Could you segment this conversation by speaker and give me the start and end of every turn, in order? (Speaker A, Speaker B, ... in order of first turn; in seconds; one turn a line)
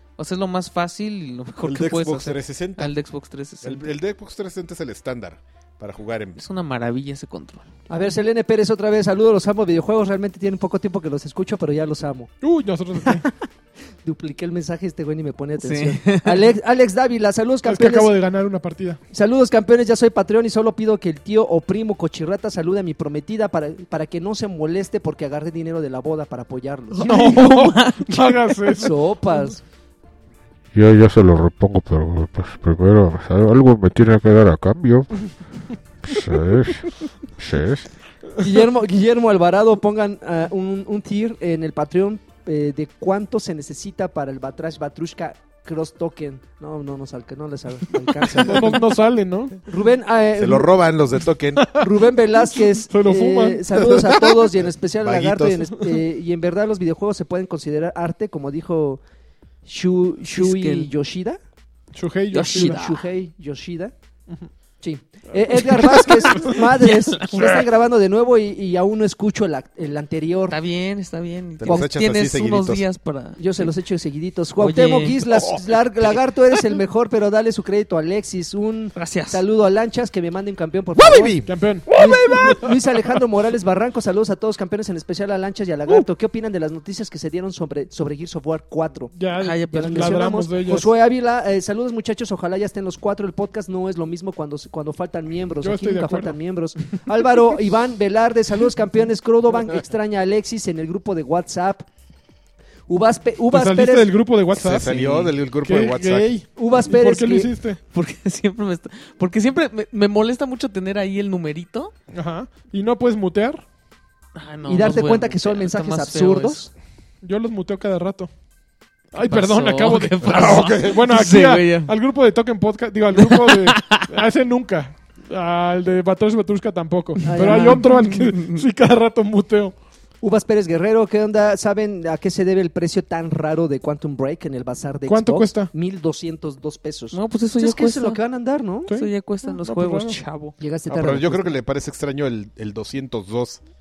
Speaker A: 0.2-3.9
Speaker B: 1.6-2.9
Speaker B: 3.6-6.4
Speaker A: 6.4-7.7
Speaker C: 7.9-12.3
Speaker D: 12.4-13.3
Speaker C: 13.0-13.3
Speaker C: 14.0-18.1
Speaker A: 15.6-16.4
Speaker D: 17.6-19.0
Speaker C: 19.1-27.1
Speaker A: 26.9-28.9
Speaker D: 27.0-28.9
Speaker C: 28.8-29.6
Speaker E: 30.7-35.4
Speaker E: 36.0-37.9
Speaker C: 38.4-48.9
Speaker D: 48.3-49.6
Speaker C: 49.6-50.7
Speaker B: 50.4-51.7
Speaker D: 51.5-53.9
Speaker C: 51.7-59.0
Speaker B: 53.8-55.7
Speaker C: 59.6-61.4
Speaker A: 60.3-60.9
Speaker D: 61.9-62.8
Speaker A: 62.3-63.0
Speaker C: 62.5-63.9
Speaker C: 64.8-70.5
Speaker A: 65.7-67.5
Speaker A: 70.5-73.7
Speaker B: 71.6-72.8
Speaker C: 73.4-81.4
Speaker A: 74.6-75.3
Speaker A: 78.9-79.4
Speaker B: 81.0-83.2
Speaker D: 81.5-81.9
Speaker C: 81.9-89.1
Speaker D: 89.1-90.9
Speaker A: 89.4-90.2
Speaker C: 89.7-101.9
Speaker D: 95.6-96.4
Speaker C: 102.9-104.1
Speaker D: 103.5-107.8
Speaker B: 104.5-106.3
Speaker C: 106.5-107.5
Speaker A: 107.9-111.9
Speaker D: 112.1-113.6
Speaker A: 114.3-116.7
Speaker C: 114.7-116.7
Speaker D: 117.2-118.3
Speaker D: 119.1-129.8
Speaker A: 119.2-121.9
Speaker B: 120.2-121.1
Speaker A: 123.1-124.1
Speaker C: 127.2-127.9
Speaker A: 127.3-128.6
Speaker C: 130.2-138.9
Speaker D: 135.1-135.7
Speaker A: 137.1-138.2
Speaker D: 138.9-140.2
Speaker A: 138.9-140.5
Speaker C: 140.6-141.6
Speaker B: 140.9-143.6